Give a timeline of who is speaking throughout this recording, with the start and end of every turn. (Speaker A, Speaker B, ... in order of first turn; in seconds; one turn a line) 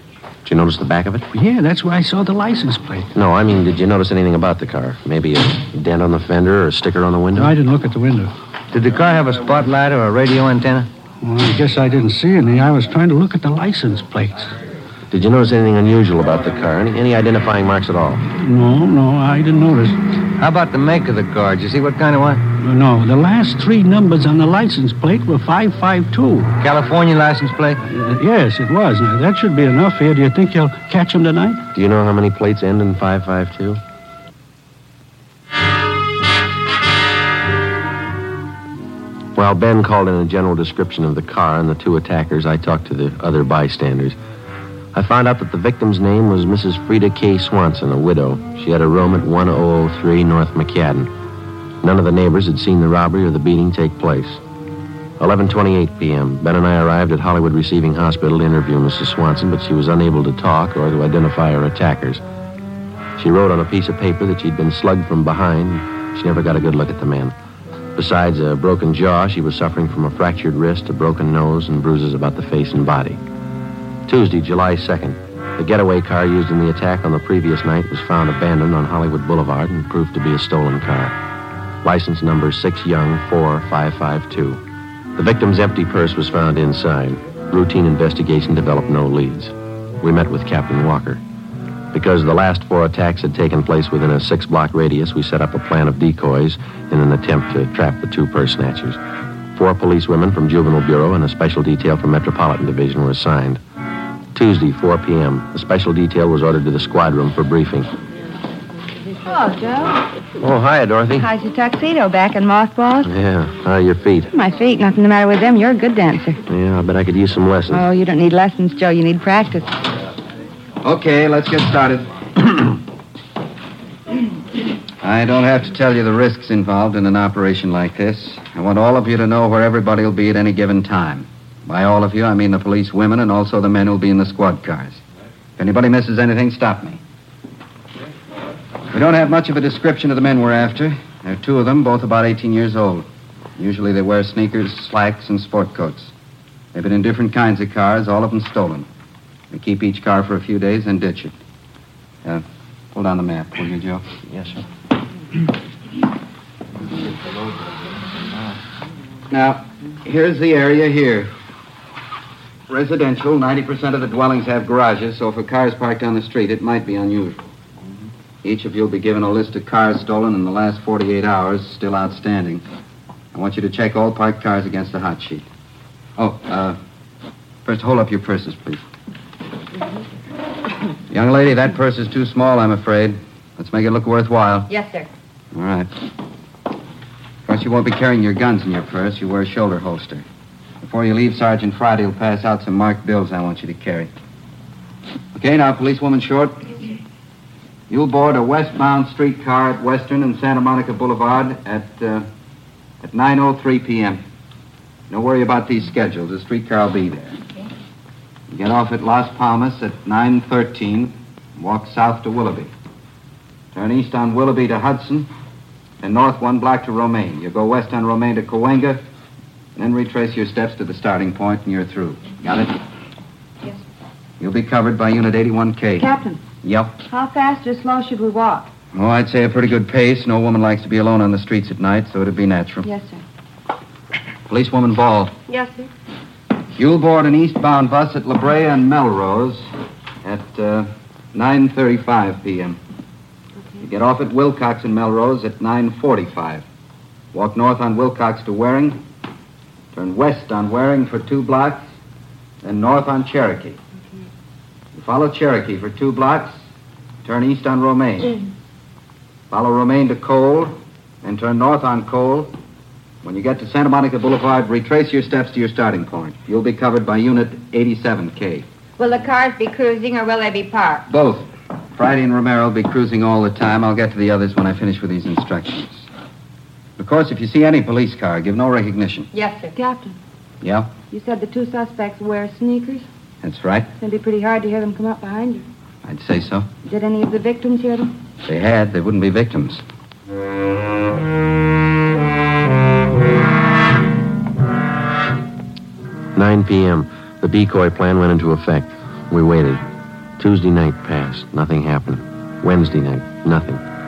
Speaker A: 0.5-1.3
Speaker B: 1.3-3.1
Speaker A: 3.1-7.5
Speaker B: 7.3-8.3
Speaker C: 8.7-10.9
Speaker B: 11.2-14.5
Speaker A: 15.1-18.2
Speaker B: 18.4-20.0
Speaker C: 20.4-22.4
Speaker B: 22.6-26.6
Speaker C: 26.6-27.8
Speaker B: 27.8-31.7
Speaker A: 31.8-33.8
Speaker A: 39.4-44.2
Speaker A: 44.9-51.1
Speaker A: 51.8-54.4
Speaker A: 55.2-62.2
Speaker A: 63.2-67.3
Speaker A: 68.0-73.2
Speaker A: 74.1-81.2
Speaker A: 81.8-84.6
Speaker A: 85.2-91.2
Speaker A: 91.9-99.0
Speaker A: 99.5-103.6
Speaker A: 104.3-107.9
Speaker D: 109.2-110.1
Speaker A: 110.4-111.3
Speaker D: 111.2-113.1
Speaker A: 113.0-114.3
Speaker D: 114.3-116.4
Speaker A: 116.5-117.9
Speaker D: 117.7-119.8
Speaker E: 120.8-122.5
Speaker E: 125.0-135.0
Speaker E: 135.6-137.0
Speaker E: 138.9-146.1
Speaker E: 146.7-148.9
Speaker E: 149.5-151.3
Speaker E: 152.2-154.0
Speaker A: 154.3-154.6
Speaker E: 159.3-161.3
Speaker E: 162.7-167.5
Speaker E: 168.4-172.6
Speaker E: 173.3-175.5
Speaker E: 176.2-176.8
Speaker E: 177.7-178.8
Speaker E: 181.1-184.7
Speaker E: 185.5-185.9
Speaker E: 187.5-190.2
Speaker E: 190.8-194.1
Speaker E: 195.3-196.8
Speaker E: 197.9-202.3
Speaker E: 203.0-204.2
Speaker E: 205.1-207.4
Speaker E: 208.5-212.7
Speaker E: 213.7-215.3
Speaker E: 216.0-219.0
Speaker E: 219.8-222.8
Speaker E: 224.4-226.1
Speaker D: 226.0-226.4
Speaker E: 226.6-227.0
Speaker D: 227.0-228.7
Speaker E: 228.9-232.9
Speaker D: 232.8-233.2
Speaker E: 234.5-235.4
Speaker D: 235.5-235.9
Speaker E: 236.8-239.6
Speaker E: 240.2-242.8
Speaker E: 243.8-246.7
Speaker E: 247.3-249.0
Speaker E: 249.9-251.8
Speaker E: 252.6-253.8
Speaker E: 254.9-256.6
Speaker E: 257.2-258.3
Speaker E: 259.5-262.5
Speaker E: 263.2-268.7
Speaker F: 269.0-271.1
Speaker E: 271.1-276.1
Speaker E: 277.0-279.3
Speaker F: 279.4-279.7
Speaker D: 279.7-280.2
Speaker E: 280.6-280.9
Speaker D: 281.1-283.1
Speaker E: 283.4-283.9
Speaker D: 284.0-285.6
Speaker E: 286.0-286.7
Speaker D: 286.9-288.1
Speaker E: 288.4-289.8
Speaker A: 296.4-299.8
Speaker A: 300.4-303.8